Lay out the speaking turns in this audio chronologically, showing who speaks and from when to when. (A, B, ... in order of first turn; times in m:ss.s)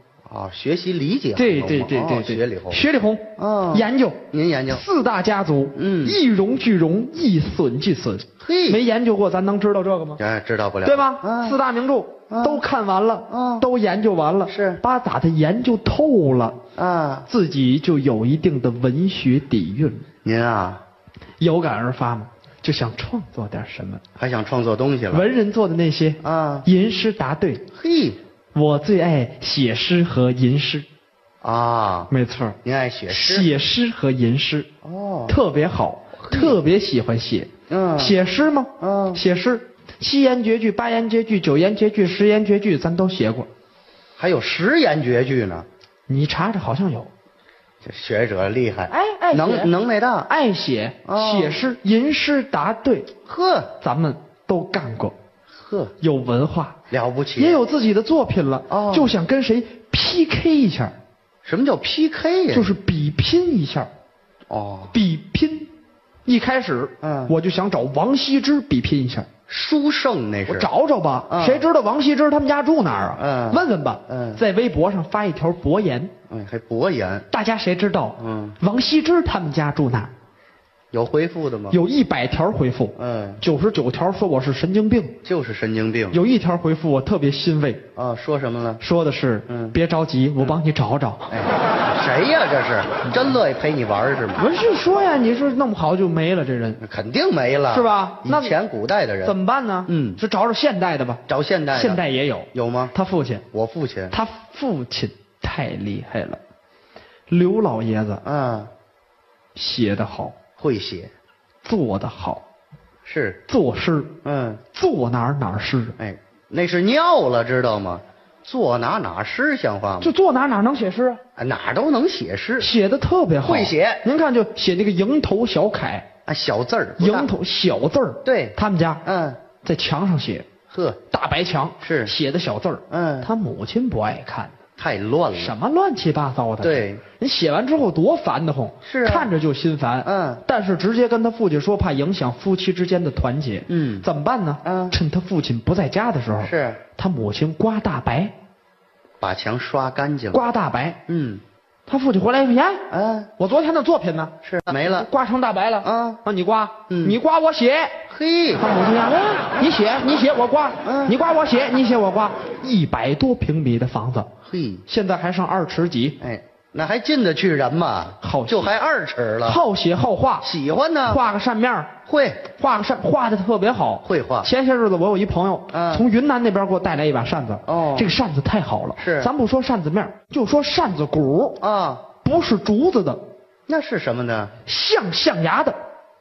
0:00.3-0:02.8 A
0:01.4-0:10.2 B
0:03.4-0:04.8 A
0:05.8-0:06.2 A
0:08.4-0:08.8 A
0:10.2-0:11.6 A
0:10.8-0:16.6 B
0:12.3-0:12.6 A
0:13.3-0:13.7 A
0:14.5-0:14.8 A
0:16.8-0:17.3 A
0:17.3-0:20.1 B
0:20.2-0:20.8 A
0:21.4-0:24.0 B
0:24.2-0:25.3 A
0:25.1-0:27.6 B
0:26.2-0:26.7 A
0:27.7-0:28.2 A
0:28.6-0:30.9 B
0:31.4-0:32.1 A
0:32.1-0:32.6 B
0:32.6-0:33.5 A
0:33.1-0:34.7 B
0:34.8-0:35.4 A
0:35.3-0:43.5 B
0:36.2-0:36.6 A
0:37.7-0:38.2 A
0:38.8-0:39.2 A
0:44.2-0:45.7 A
0:46.1-0:47.1 B
0:47.8-0:50.3 A
0:48.9-0:49.7 B
0:50.3-0:53.1 B
0:51.0-0:51.7 A
0:53.3-0:53.7 A
0:53.8-0:55.1 B
0:55.5-0:55.9 A
0:56.0-0:56.8 B
0:56.9-0:57.6 A
0:57.4-1:00.9 B
0:58.7-0:59.1 A
1:01.4-1:02.8 A
1:02.5-1:03.9 B
1:04.5-1:05.0 A
1:04.9-1:05.7 B
1:06.3-1:09.3 B
1:07.0-1:07.4 A
1:09.5-1:10.7 A
1:10.5-1:16.1 B
1:11.3-1:11.7 A
1:13.2-1:14.4 A
1:16.3-1:17.3 A
1:17.3-1:20.1 B
1:18.2-1:18.6 A
1:20.9-1:21.8 A
1:21.7-1:25.2 B
1:23.0-1:23.4 A
1:25.2-1:26.2 A
1:26.1-1:27.8 B
1:28.0-1:28.8 A
1:28.8-1:31.3 B
1:29.5-1:29.8 A
1:31.3-1:34.4 A
1:34.4-1:36.8 B
1:36.8-1:39.4 A
1:37.7-1:38.6 B
1:39.2-1:43.4 B
1:39.9-1:40.2 A
1:41.3-1:42.0 A
1:42.5-1:42.9 A
1:43.5-1:44.2 A
1:44.1-1:46.4 B
1:47.3-1:48.2 B
1:48.2-1:48.7 A
1:49.6-1:50.4 B
1:50.6-1:51.1 A
1:51.6-1:52.4 B
1:53.1-1:53.4 A
1:53.5-1:54.1 B
1:54.2-1:54.6 A
1:54.7-1:56.0 B
1:56.0-2:00.1 A
2:00.0-2:01.2 B
2:01.4-2:02.7 A
2:02.6-2:06.1 B
2:03.4-2:04.0 A
2:06.3-2:07.3 A
2:07.0-2:09.0 B
2:08.2-2:09.4 A
2:09.6-2:10.5 B
2:10.7-2:11.0 A
2:11.1-2:14.5 B
2:11.8-2:12.1 A
2:12.9-2:13.3 A
2:14.8-2:15.6 A
2:15.4-2:28.3 B
2:16.6-2:17.0 A
2:18.8-2:19.3 A
2:20.0-2:20.4 A
2:23.7-2:24.1 A
2:24.6-2:25.0 A
2:26.4-2:26.8 A
2:29.2-2:30.4 A
2:30.3-2:31.0 B
2:31.1-2:31.4 A
2:31.9-2:32.9 B
2:32.9-2:33.3 A
2:33.4-2:38.0 B
2:34.4-2:35.1 A
2:35.8-2:36.2 A
2:36.9-2:37.2 A
2:38.1-2:38.6 A
2:38.6-2:44.3 B
2:40.8-2:41.2 A
2:44.4-2:44.8 A
2:44.9-2:46.2 B
2:46.2-2:49.6 A
2:48.2-2:48.7 B
2:49.4-2:50.5 B
2:50.4-2:51.2 A
2:51.1-2:51.9 B
2:52.1-2:52.4 A
2:52.6-3:01.6 B
2:54.0-2:54.5 A
2:55.7-2:56.1 A
2:57.6-2:58.1 A
2:59.0-2:59.3 A
3:01.6-3:02.1 A
3:02.2-3:03.2 B
3:03.7-3:04.5 A
3:04.6-3:05.8 B